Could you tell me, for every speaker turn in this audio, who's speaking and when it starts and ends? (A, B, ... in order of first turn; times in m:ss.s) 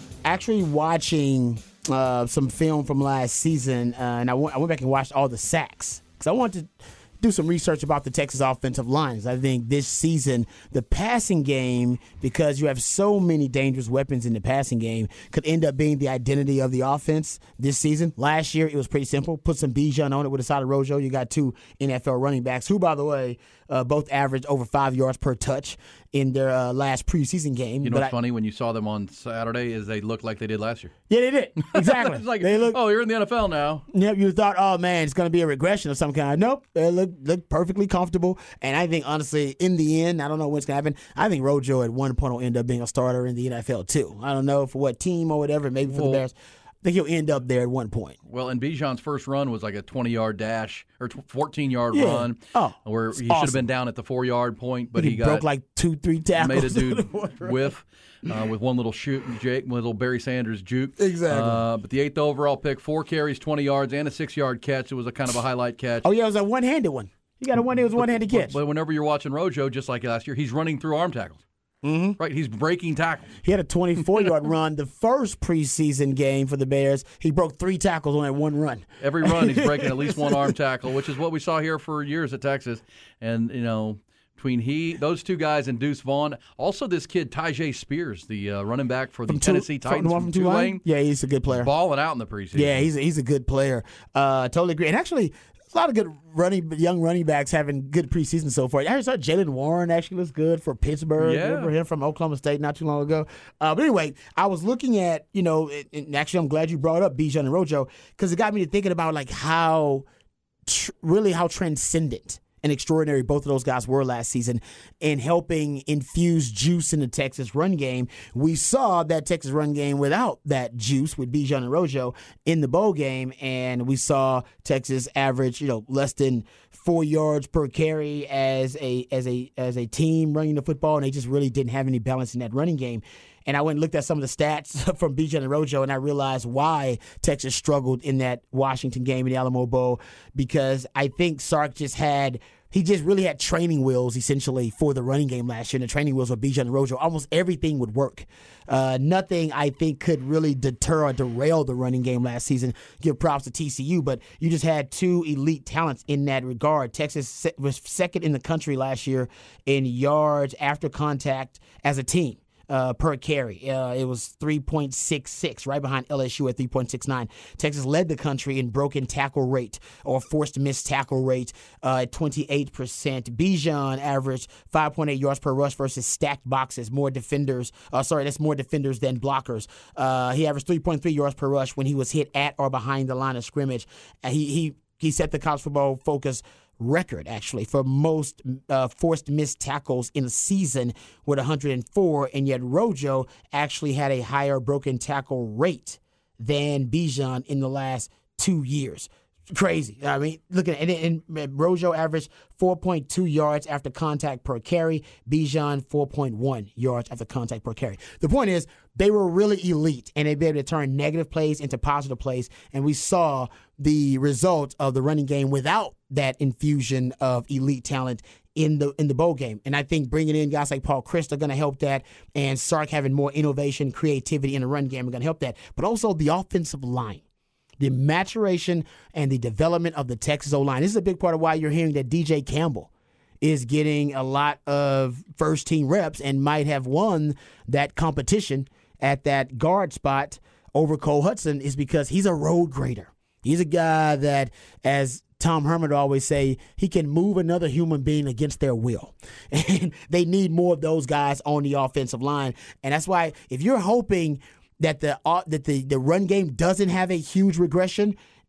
0:00.2-0:28.1 A
0:27.8-0:30.9 B
0:31.1-0:32.8 A
0:31.6-0:33.8 B
0:33.9-0:48.2 A
0:45.9-0:46.2 B
0:48.2-0:55.4 B
0:51.9-0:53.6 A
0:54.9-0:57.6 A
0:56.4-1:06.1 B
1:01.0-1:01.6 A
1:06.0-1:08.6 A
1:08.0-1:11.4 B
1:11.8-1:12.2 A
1:12.2-1:13.3 B
1:13.4-1:20.5 A
1:19.0-1:30.8 B
1:29.3-1:31.7 A
1:31.5-1:32.9 B
1:32.5-1:50.0 A
1:41.2-1:41.7 B
1:50.6-3:47.2 A
3:47.8-3:52.9 A
3:53.4-4:18.2 A